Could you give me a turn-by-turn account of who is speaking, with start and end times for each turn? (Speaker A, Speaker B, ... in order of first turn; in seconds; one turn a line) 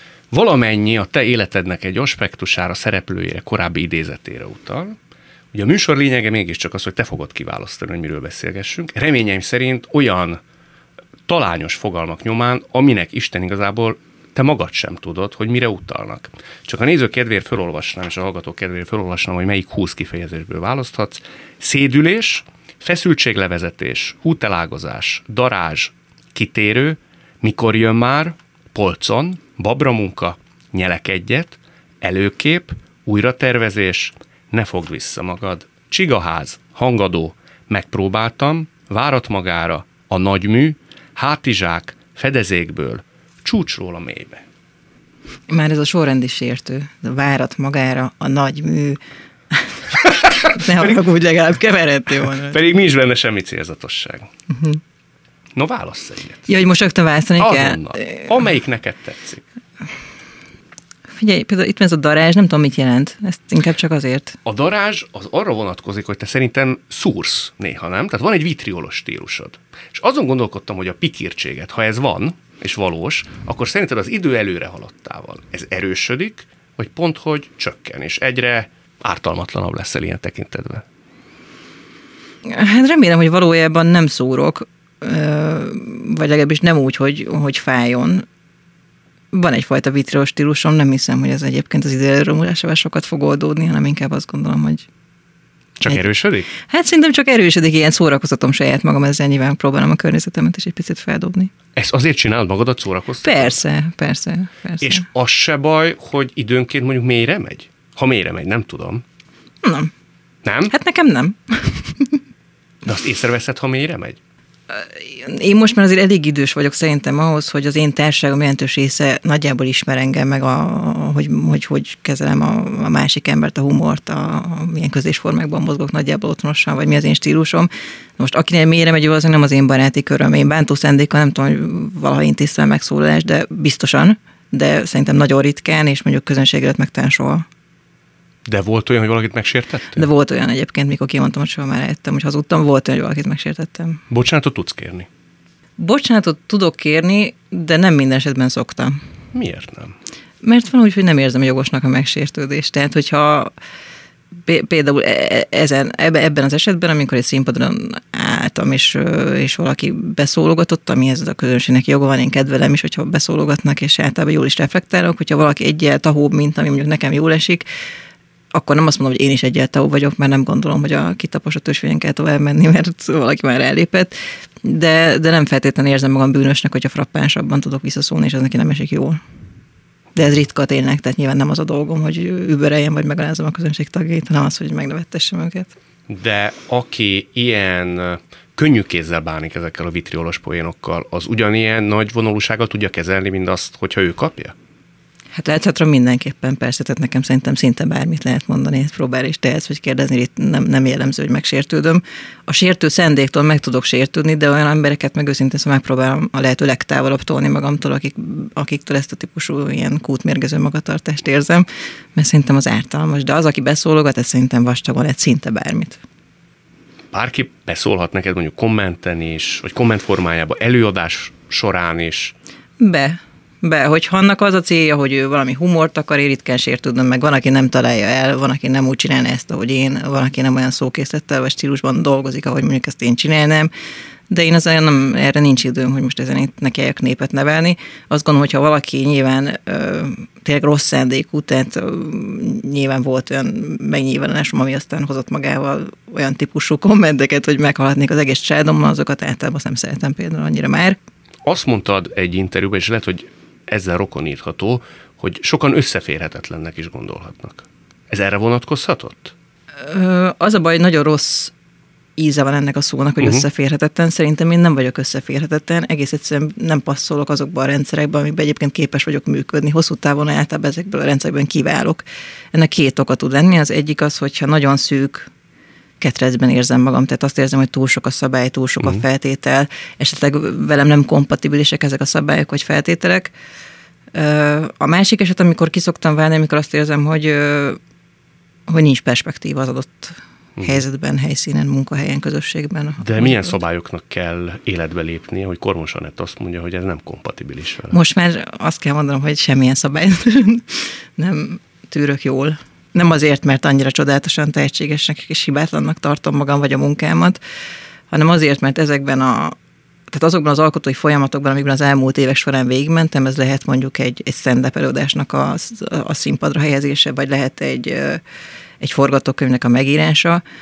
Speaker A: 0.3-5.0
Speaker A: 5.5-10.4
Speaker A: 11.3-44.4
Speaker B: 45.5-52.6
Speaker A: 50.2-50.9
Speaker A: 52.5-54.3
Speaker B: 54.5-54.8
Speaker A: 55.5-56.5
Speaker B: 56.5-58.3
Speaker A: 57.4-59.4
Speaker B: 61.1-64.4
Speaker A: 64.4-80.8
Speaker B: 82.4-88.2
Speaker B: 89.3-94.9
Speaker A: 95.8-96.5
Speaker B: 96.6-101.5
Speaker A: 101.8-103.6
Speaker B: 103.2-105.0
Speaker A: 104.8-109.0
Speaker B: 109.6-109.9
Speaker A: 110.4-110.7
Speaker B: 110.7-112.2
Speaker A: 112.8-114.2
Speaker B: 114.7-137.4
Speaker A: 138.4-140.1
Speaker B: 139.9-144.0
Speaker A: 144.1-145.1
Speaker B: 145.8-149.0
Speaker A: 149.3-149.9
Speaker B: 150.4-153.5
Speaker B: 154.4-167.6
Speaker B: 168.5-179.2
Speaker B: 180.1-185.7
Speaker A: 186.1-194.5
Speaker B: 195.3-216.0
Speaker A: 217.1-222.3
Speaker B: 222.8-233.7
Speaker B: 234.3-251.0
Speaker A: 251.4-259.3
Speaker B: 259.8-261.5
Speaker B: 262.2-275.3
Speaker B: 276.0-283.3
Speaker B: 284.1-287.8
Speaker B: 288.7-293.5
Speaker A: 290.6-290.8
Speaker A: 293.0-297.9
Speaker B: 297.9-307.4
Speaker B: 308.1-309.6
Speaker B: 310.1-318.2
Speaker B: 318.8-320.4